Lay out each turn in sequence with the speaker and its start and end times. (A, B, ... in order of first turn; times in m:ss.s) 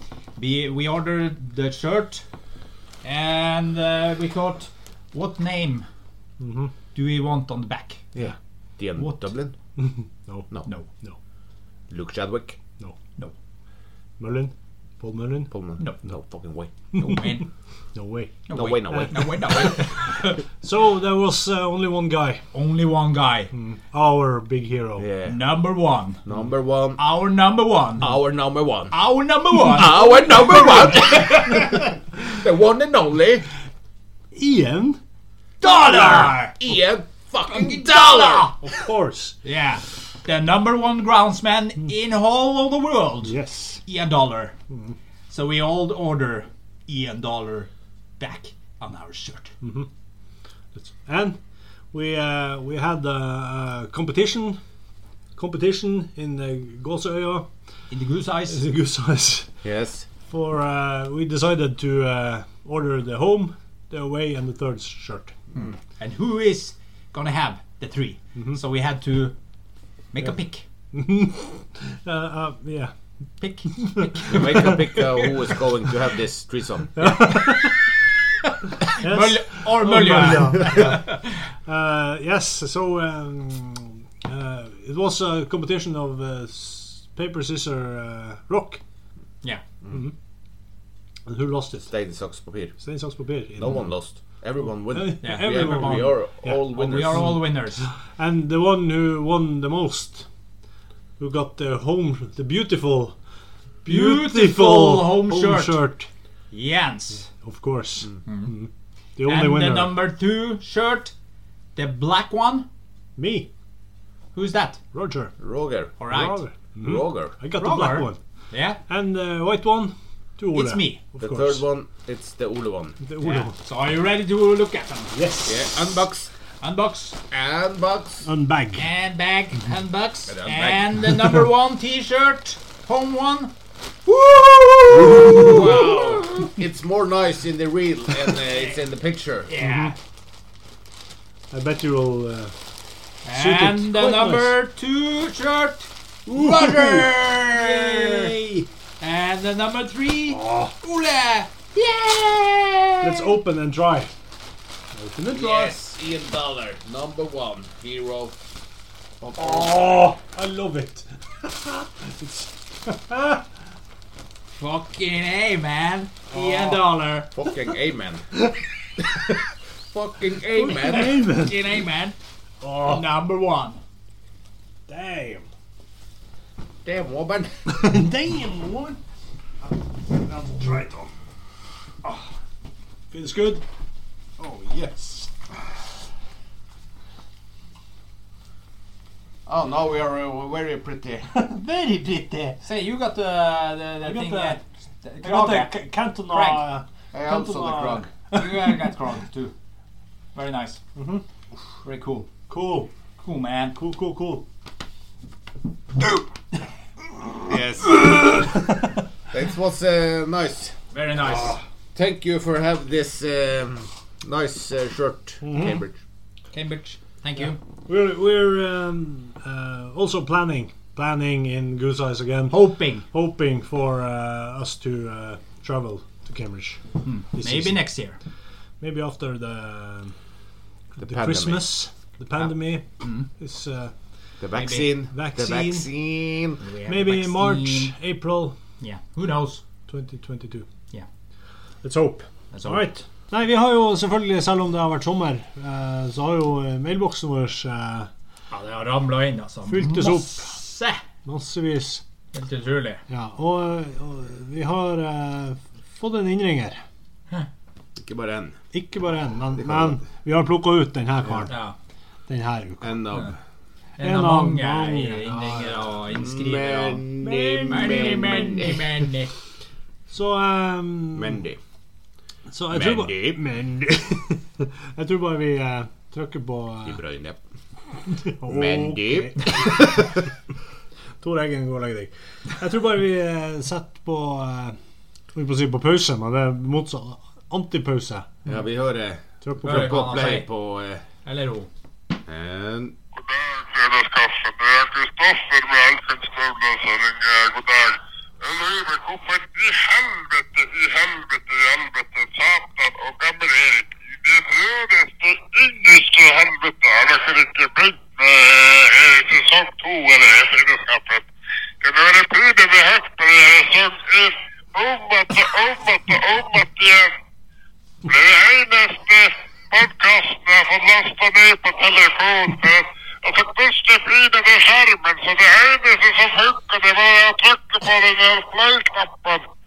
0:00.4-0:02.2 A
0:03.0-0:05.8 A
0:06.4-0:06.7 B
0:06.9-0:08.0 A
0:08.1-0:09.6 C
0:09.0-0:09.2 A
0:09.8-0:11.2 B
0:11.9-0:12.6 C
0:14.2-0:15.5 B
0:15.5-0:16.7 C
0:16.9-0:17.4 B
0:16.9-0:17.5 A
0:17.9-0:19.8 B
0:18.5-0:20.4 A
0:18.5-0:19.7 C
0:20.6-0:22.4 B
0:22.5-0:23.5 A
0:23.5-0:25.0 B
0:25.0-0:25.4 C
0:25.3-0:26.2 A
0:26.2-0:27.0 C
0:27.0-0:28.1 A
0:28.0-0:28.9 C
0:28.9-0:31.8 A
0:29.7-0:33.4 C
0:34.3-0:35.0 B
0:35.6-0:36.5 A
0:35.6-0:36.5 B
0:36.0-0:38.5 C
0:37.5-0:38.6 A
0:38.6-0:39.4 B
0:39.4-0:43.3 A
0:43.2-0:43.8 B
0:43.8-0:44.5 A
0:44.7-0:45.0 B
0:45.3-0:49.5 A
0:49.6-0:49.9 B
0:50.7-0:51.4 B
0:51.9-0:54.6 B
0:55.4-0:57.5 B
0:57.9-0:58.6 A
0:58.5-0:59.5 B
0:59.6-1:00.1 C
1:00.3-1:05.4 B
1:05.5-1:09.3 A
1:10.1-1:10.6 A
1:10.9-1:12.9 B
1:13.4-1:15.3 A
1:13.8-1:14.8 B
1:14.3-1:17.1 C
1:17.0-1:17.8 B
1:17.2-1:17.7 A
1:18.4-1:21.4 A
1:19.0-1:21.1 B
1:21.6-1:28.8 B
1:31.3-1:31.9 B
1:31.9-1:32.8 C
1:32.8-1:33.8 B
1:33.6-1:37.3 C
1:34.9-1:40.3 B
1:35.2-1:37.8 A
1:41.2-1:43.2 B
1:43.8-1:46.1 B
1:43.8-1:45.8 A
1:46.5-1:47.3 A
1:47.4-1:50.0 B
1:48.2-1:48.5 A
1:49.2-1:51.1 A
1:51.8-1:52.7 A
1:53.2-1:53.5 B
1:54.3-1:54.8 A
1:54.9-1:55.3 B
1:55.4-1:55.9 C
1:56.0-1:56.4 A
1:56.1-1:58.2 B
1:56.8-1:57.3 C
1:57.6-1:58.8 A
1:58.9-2:01.6 B
2:00.5-2:01.0 A
2:01.2-2:03.0 C
2:03.0-2:03.5 B
2:03.2-2:05.1 A
2:05.1-2:05.6 B
2:05.4-2:06.3 C
2:06.6-2:07.2 A
2:07.3-2:08.3 C
2:08.2-2:08.9 B
2:08.8-2:13.5 A
2:10.3-2:10.9 C
2:14.0-2:16.4 A
2:14.9-2:15.6 B
2:15.3-2:19.5 C
2:19.5-2:20.0 A
2:19.6-2:19.9 B
2:21.5-2:22.5 B
2:23.2-2:28.3 A
2:23.3-2:24.6 B
2:26.3-2:28.7 B
2:29.0-2:33.3 A
2:30.3-2:30.7 B
2:33.0-2:34.1 B
2:34.9-2:35.7 B
2:35.3-2:38.4 C
2:39.2-2:40.1 C
2:39.4-2:43.4 B
2:44.6-2:47.3 A
2:46.3-2:46.8 B
2:47.3-2:48.2 C
2:48.3-2:49.3 B
2:49.9-2:51.2 C
2:50.5-2:51.6 B
2:50.7-2:52.2 A
2:52.6-2:53.0 B
2:52.8-2:53.8 A
2:54.9-2:55.5 B
2:56.8-2:57.6 C
2:57.7-2:59.0 B
2:59.6-3:01.1 B
3:03.1-3:03.6 B
3:04.4-3:05.3 B
3:09.4-3:11.3 C
3:11.3-3:12.6 B
3:12.6-3:15.7 A
3:14.0-3:14.6 B
3:15.2-3:18.8 B
3:16.3-3:16.6 A
3:17.1-3:18.1 C
3:18.3-3:19.5 A
3:20.3-3:20.8 A
3:21.0-3:21.2 B
3:21.8-3:22.3 A
3:22.5-3:22.9 B
3:23.2-3:23.8 A
3:23.7-3:24.4 B
3:27.5-3:28.2 C
3:27.9-3:28.8 B
3:29.3-3:30.8 C
3:30.9-3:31.6 A
3:31.9-3:36.0 C
3:35.4-3:35.8 B
3:36.5-3:37.6 A
3:37.9-3:46.8 B
3:42.5-3:43.0 A
3:47.0-3:48.2 A
3:47.3-3:47.8 B
3:48.8-3:50.1 B
3:51.0-3:53.9 B
3:51.0-3:51.7 C
3:52.4-3:53.3 A
3:54.4-3:56.6 C
3:54.5-3:54.9 A
3:55.1-3:55.9 B
3:56.6-3:57.9 A
3:56.8-3:58.6 B
3:58.8-3:59.6 A
3:59.9-4:00.7 B
4:01.8-4:08.1 B
4:02.5-4:02.9 A
4:08.5-4:11.0 A
4:09.6-4:10.6 B
4:11.2-4:12.0 B
4:12.3-4:13.0 A
4:13.1-4:16.8 B
4:18.0-4:18.6 C
4:18.7-4:21.5 B
4:19.6-4:20.0 C
4:21.5-4:21.7 A
4:22.3-4:23.0 B
4:22.8-4:23.4 C
4:24.0-4:27.1 A
4:24.0-4:25.8 B
4:26.1-4:28.8 C
4:27.2-4:28.5 B
4:27.6-4:29.3 A
4:30.1-4:31.4 B
4:31.1-4:31.6 C
4:32.5-4:37.0 B
4:32.7-4:33.4 C
4:36.8-4:37.4 C
4:38.1-4:40.1 B
4:38.4-4:40.0 C
4:41.2-4:44.8 B
4:45.3-4:48.3 B
4:48.4-4:51.0 C
4:49.4-4:50.1 B
4:49.6-4:50.5 A
4:51.2-4:51.7 A
4:52.3-4:52.9 C
4:53.2-5:11.3 D
5:11.8-5:17.1 D
5:18.0-5:29.4 D